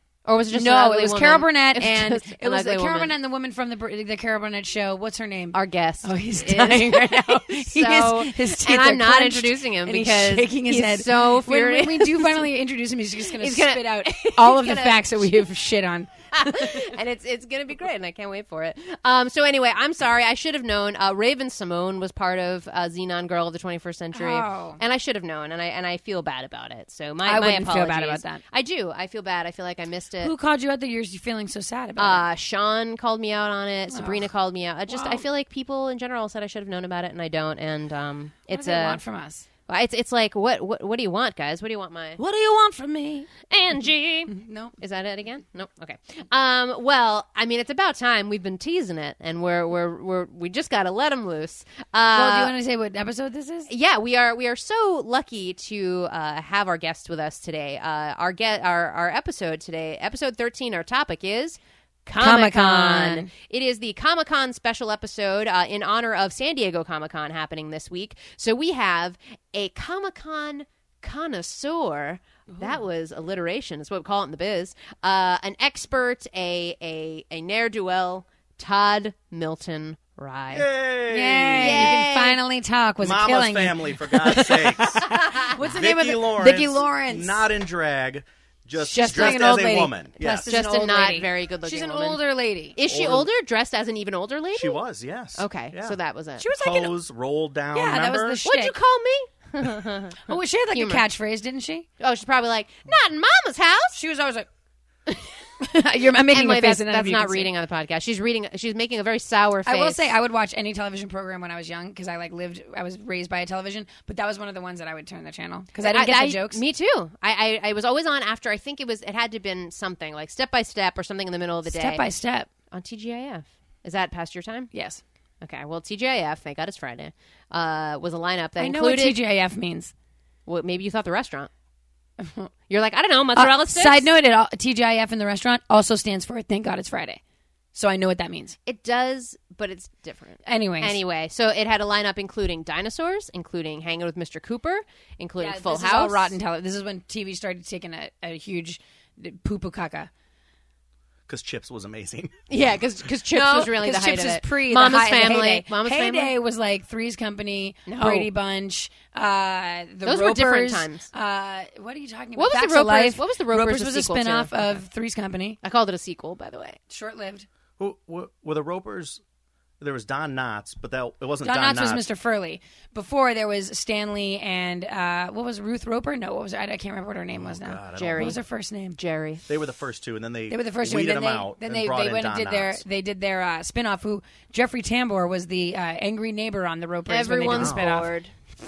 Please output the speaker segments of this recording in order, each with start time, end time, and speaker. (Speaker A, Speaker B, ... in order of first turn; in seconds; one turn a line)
Speaker A: 0.3-3.1
Speaker B: 0.5-16.9
Speaker A: 5.5-12.5
Speaker A: 13.3-15.4
Speaker A: 16.3-30.3
Speaker B: 24.1-24.8
Speaker B: 27.2-28.4
Speaker B: 30.2-32.3
Speaker A: 32.0-39.0
Speaker B: 33.9-34.3
Speaker B: 34.9-35.2
Speaker B: 38.5-39.5
Speaker A: 39.7-42.2
Speaker B: 42.2-43.3
Speaker A: 43.5-52.5
Speaker B: 44.3-44.8
Speaker B: 52.1-53.7
Speaker A: 53.7-80.7
Speaker B: 62.2-63.3
Speaker C: 80.5-82.0
Speaker B: 81.1-87.5
Speaker A: 81.6-82.4
Speaker C: 83.0-90.5
Speaker B: 88.8-92.8
Speaker A: 89.0-89.5
Speaker A: 90.4-92.2
Speaker A: 92.8-94.8
Speaker C: 92.8-93.3
Speaker C: 94.5-96.0
Speaker A: 95.3-96.5
Speaker B: 96.4-96.9
Speaker C: 96.6-98.4
Speaker B: 97.7-98.8
Speaker A: 98.5-101.0
Speaker B: 100.2-101.9
Speaker A: 102.0-104.0
Speaker B: 104.0-104.5
Speaker B: 105.6-107.5
Speaker A: 106.3-110.1
Speaker B: 109.7-116.6
Speaker A: 115.8-122.1
Speaker B: 121.7-122.5
Speaker A: 122.7-124.7
Speaker B: 124.7-125.0
Speaker A: 125.4-129.2
Speaker B: 128.6-129.9
Speaker A: 130.5-131.5
Speaker B: 132.2-132.5
Speaker A: 132.7-134.1
Speaker B: 133.4-137.2
Speaker B: 137.8-138.6
Speaker A: 138.7-146.4
Speaker B: 140.5-141.0
Speaker B: 145.4-150.1
Speaker C: 151.3-152.3
Speaker A: 152.5-156.3
Speaker B: 153.3-165.6
Speaker A: 157.9-158.3
Speaker A: 160.1-161.1
Speaker A: 162.4-164.8
Speaker A: 165.6-166.8
Speaker B: 166.9-167.5
Speaker C: 167.8-169.2
Speaker C: 169.8-172.1
Speaker B: 171.4-179.0
Speaker C: 177.3-178.4
Speaker A: 178.0-178.4
Speaker A: 179.0-179.4
Speaker C: 179.5-182.8
Speaker B: 180.5-188.1
Speaker A: 187.1-188.3
Speaker C: 187.5-188.1